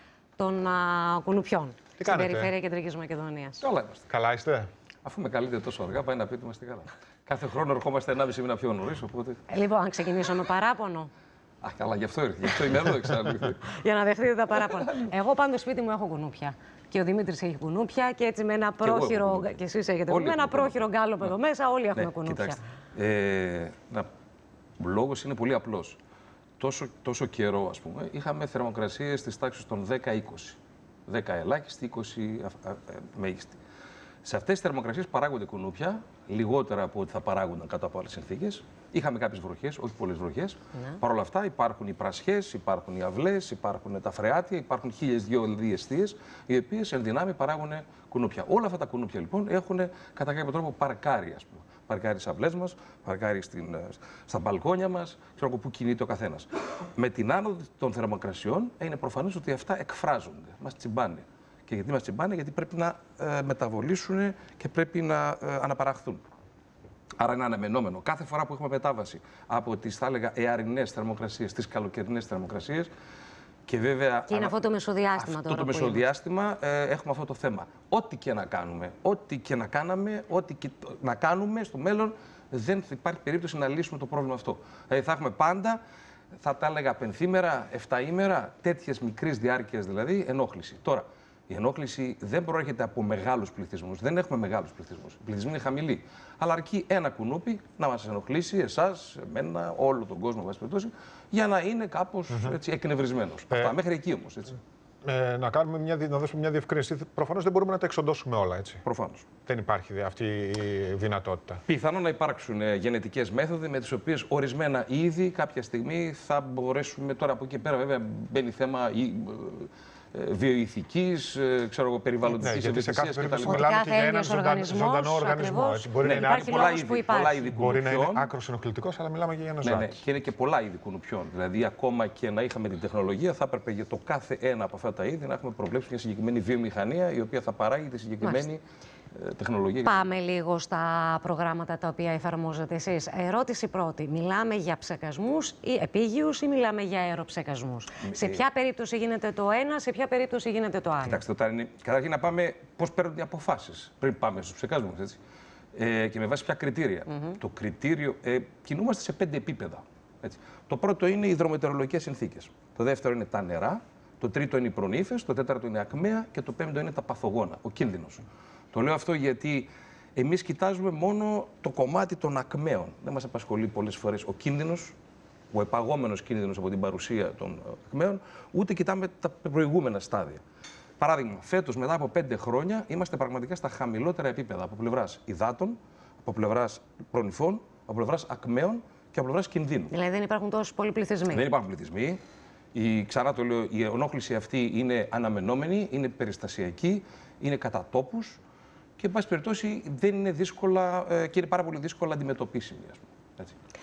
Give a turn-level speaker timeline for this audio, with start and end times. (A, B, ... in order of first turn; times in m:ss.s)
0:00.4-0:03.6 A
0:02.0-0:02.5 B
0:03.6-0:04.0 C
0:04.1-0:04.7 B
0:05.0-0:09.4 C
0:09.5-0:11.1 A
0:11.6-0:13.7 C
0:13.7-0:22.6 A
0:14.7-0:15.1 C
0:18.8-0:19.5 C
0:20.1-0:20.8 C
0:22.0-0:24.1 C
0:24.8-0:26.0 C
0:26.6-0:33.6 C
0:34.2-1:06.2 C
1:07.2-1:12.9 C
1:13.7-1:14.6 C
1:14.3-1:16.1 A
1:15.2-1:25.8 C
1:26.4-1:44.6 C
1:42.3-1:42.6 B
1:43.5-1:43.8 B
1:45.0-1:48.8 B
1:48.8-1:49.3 C
1:49.4-1:51.6 B
1:51.7-2:03.7 C
2:02.3-2:06.6 B
2:03.4-2:07.4 A
2:06.0-2:08.3 C
2:07.4-2:10.0 B
2:09.6-2:18.6 C
2:19.1-2:20.1 C
2:19.8-2:31.2 A
2:28.0-2:28.4 C
2:31.0-2:35.2 C
2:35.7-2:54.9 C
2:55.5-3:00.4 C
3:01.0-3:09.9 C
3:09.9-3:11.5 A
3:11.3-3:12.2 C
3:12.7-3:18.4 C
3:19.0-3:23.6 C